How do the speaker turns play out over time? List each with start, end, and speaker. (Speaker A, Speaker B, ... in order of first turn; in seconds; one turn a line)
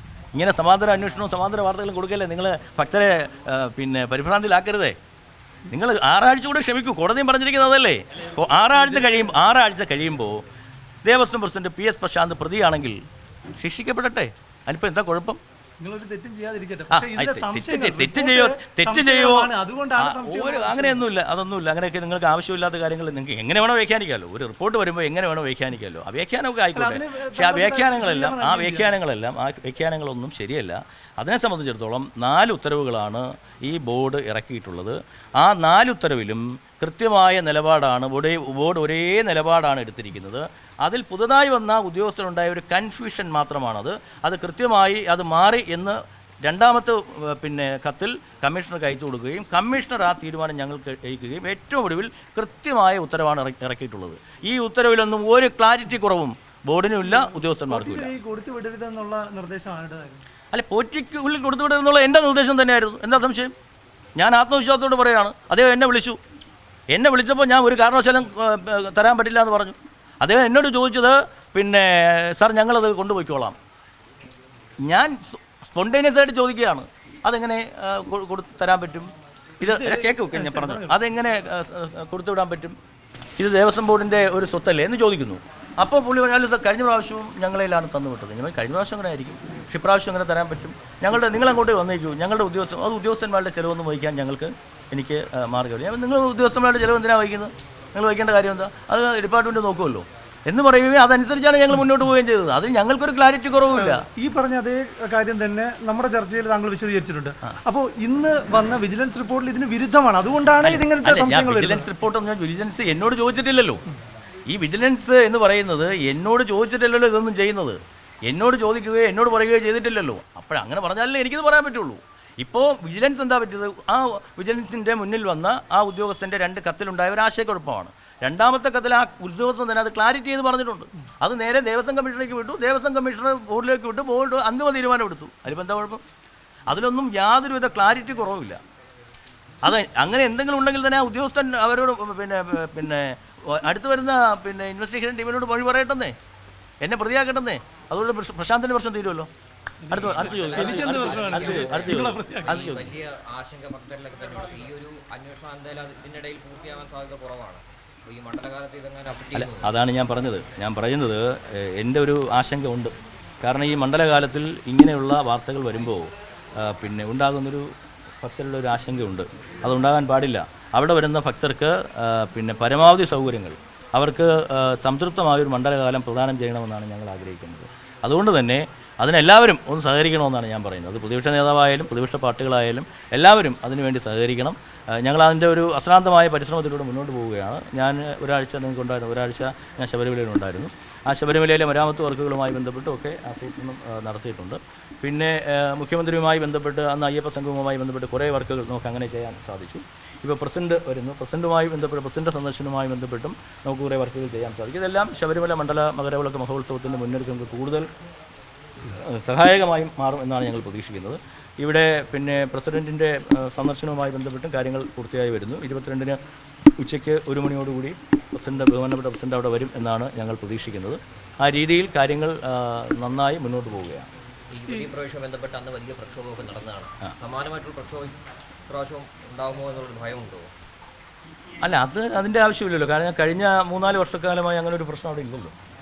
Speaker A: 0.3-5.0
Speaker A: 5.7-10.4
Speaker A: 11.0-13.0
Speaker A: 13.6-15.4
Speaker B: 15.8-21.0
Speaker A: 16.9-58.2
Speaker B: 26.7-29.0
Speaker B: 57.0-60.2
Speaker A: 60.5-63.5
Speaker A: 64.2-66.2
Speaker A: 66.9-73.5
Speaker A: 74.8-82.8
Speaker B: 79.6-81.0
Speaker A: 83.4-104.1
Speaker B: 103.7-111.9
Speaker A: 110.6-113.8
Speaker A: 114.5-136.0
Speaker A: 136.7-138.6
Speaker A: 139.6-146.1
Speaker A: 146.8-149.3
Speaker B: 149.9-152.6
Speaker A: 149.9-152.9
Speaker C: 149.9-159.7
Speaker A: 159.3-166.1
Speaker A: 166.6-167.7
Speaker A: 168.2-207.9
Speaker A: 208.8-216.2
Speaker A: 216.8-224.1
Speaker C: 224.5-230.5
Speaker A: 231.6-235.5